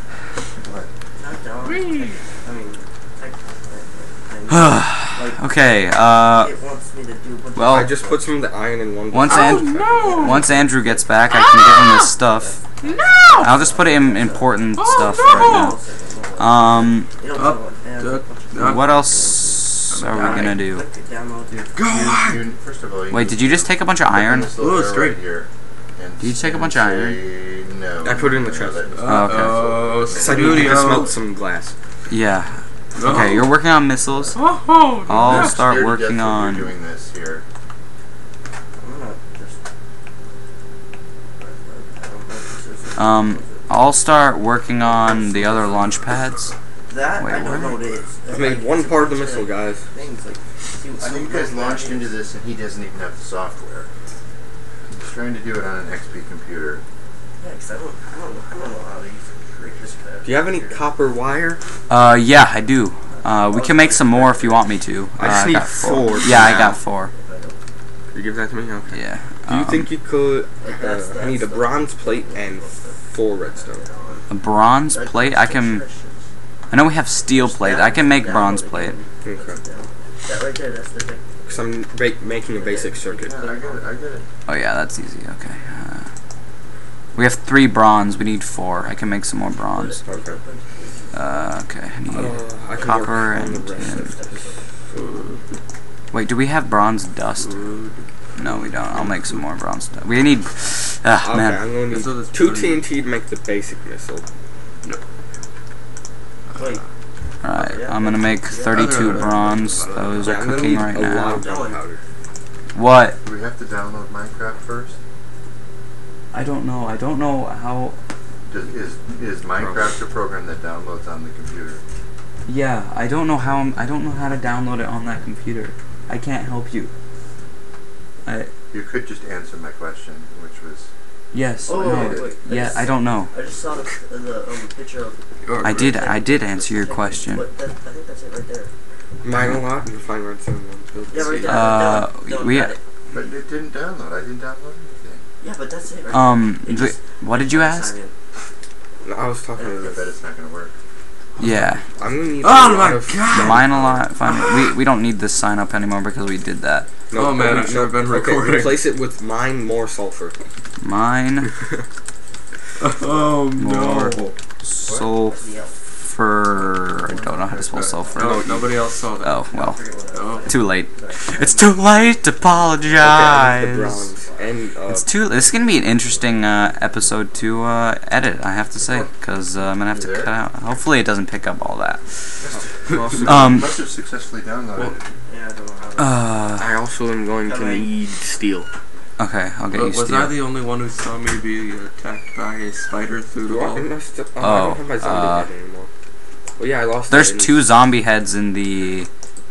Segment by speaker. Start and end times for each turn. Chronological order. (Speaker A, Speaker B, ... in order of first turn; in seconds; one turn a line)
Speaker A: 0.6-0.9
Speaker B: 1.2-5.4
Speaker C: 1.6-2.1
Speaker D: 4.5-6.5
Speaker B: 6.2-8.3
Speaker D: 7.5-7.9
Speaker E: 7.6-10.1
Speaker D: 9.1-12.6
Speaker C: 9.3-10.5
Speaker B: 9.9-11.1
Speaker C: 11.3-12.1
Speaker B: 12.3-21.7
Speaker C: 12.8-13.5
Speaker D: 13.3-15.8
Speaker C: 14.7-15.8
Speaker D: 16.4-17.1
Speaker C: 17.3-18.9
Speaker D: 18.5-20.8
Speaker C: 19.9-20.6
Speaker A: 21.5-30.9
Speaker C: 21.7-22.5
Speaker D: 23.1-24.5
Speaker C: 24.6-25.2
Speaker D: 26.2-27.2
Speaker E: 28.0-29.1
Speaker C: 28.9-31.2
Speaker D: 29.0-29.6
Speaker E: 29.8-31.8
Speaker D: 32.1-34.4
Speaker C: 33.0-33.5
Speaker B: 34.1-34.4
Speaker C: 34.3-35.6
Speaker D: 35.0-36.7
Speaker A: 35.1-37.4
Speaker B: 38.8-39.6
Speaker B: 41.4-43.7
Speaker D: 43.0-46.5
Speaker B: 44.8-45.9
Speaker B: 46.9-52.1
Speaker D: 47.2-47.8
Speaker E: 48.3-49.9
Speaker A: 51.0-53.9
Speaker A: 55.0-56.8
Speaker B: 57.4-60.8
Speaker E: 60.2-61.6
Speaker D: 61.9-67.1
Speaker B: 63.1-64.6
Speaker E: 65.2-66.8
Speaker B: 67.1-67.6
Speaker E: 68.1-73.8
Speaker D: 68.9-69.9
Speaker B: 70.6-74.3
Speaker D: 74.3-75.8
Speaker B: 74.9-76.3
Speaker D: 76.7-79.0
Speaker B: 77.3-81.3
Speaker E: 79.2-79.6
Speaker E: 81.4-83.3
Speaker B: 82.5-83.9
Speaker A: 83.1-84.3
Speaker D: 84.5-86.1
Speaker D: 87.1-90.0
Speaker B: 89.7-91.5
Speaker E: 90.0-90.4
Speaker D: 91.1-94.1
Speaker E: 92.1-95.0
Speaker B: 93.7-94.7
Speaker C: 94.9-95.4
Speaker D: 96.1-97.6
Speaker C: 97.4-99.4
Speaker D: 98.4-101.7
Speaker E: 101.2-104.2
Speaker C: 101.9-102.9
Speaker C: 106.5-106.8
Speaker B: 106.5-106.8
Speaker D: 107.4-111.4
Speaker B: 107.5-109.6
Speaker C: 108.7-110.9
Speaker E: 110.2-112.0
Speaker B: 111.4-111.8
Speaker D: 112.7-113.2
Speaker A: 113.2-115.0
Speaker D: 116.3-118.0
Speaker A: 118.5-121.8
Speaker E: 119.5-119.9
Speaker D: 122.5-126.9
Speaker D: 128.2-128.5
Speaker A: 128.7-130.9
Speaker D: 131.3-133.3
Speaker B: 131.7-138.7
Speaker E: 131.8-132.3
Speaker C: 135.4-135.9
Speaker D: 135.6-137.5
Speaker E: 139.2-141.9
Speaker D: 139.4-139.6
Speaker B: 141.1-142.8
Speaker D: 141.4-142.7
Speaker A: 143.1-145.2
Speaker B: 145.4-148.1
Speaker D: 146.1-147.9
Speaker E: 149.0-150.1
Speaker B: 149.6-149.9
Speaker A: 149.6-150.7
Speaker C: 151.4-151.8
Speaker D: 151.4-151.8
Speaker E: 151.9-154.1
Speaker C: 152.4-154.8
Speaker D: 153.3-156.9
Speaker E: 157.1-160.4
Speaker C: 157.1-158.9
Speaker D: 160.8-161.5
Speaker E: 161.5-161.8
Speaker C: 162.8-164.4
Speaker D: 163.5-168.3
Speaker A: 164.8-165.1
Speaker B: 165.2-165.8
Speaker A: 167.0-167.9
Speaker C: 167.7-169.5
Speaker E: 168.1-168.7
Speaker D: 169.2-169.8
Speaker B: 169.5-173.3
Speaker C: 170.1-170.5
Speaker D: 170.4-174.1
Speaker E: 172.9-175.1
Speaker D: 174.9-182.6
Speaker A: 179.9-180.3
Speaker A: 182.4-185.0
Speaker E: 182.9-183.3
Speaker D: 183.2-183.8
Speaker C: 184.7-185.0
Speaker B: 185.2-186.3
Speaker D: 186.0-186.7
Speaker E: 186.6-188.7
Speaker B: 187.4-187.9
Speaker D: 189.2-190.4
Speaker C: 189.7-193.9
Speaker E: 193.4-195.9
Speaker D: 194.4-195.5
Speaker E: 196.6-197.7
Speaker D: 197.1-199.1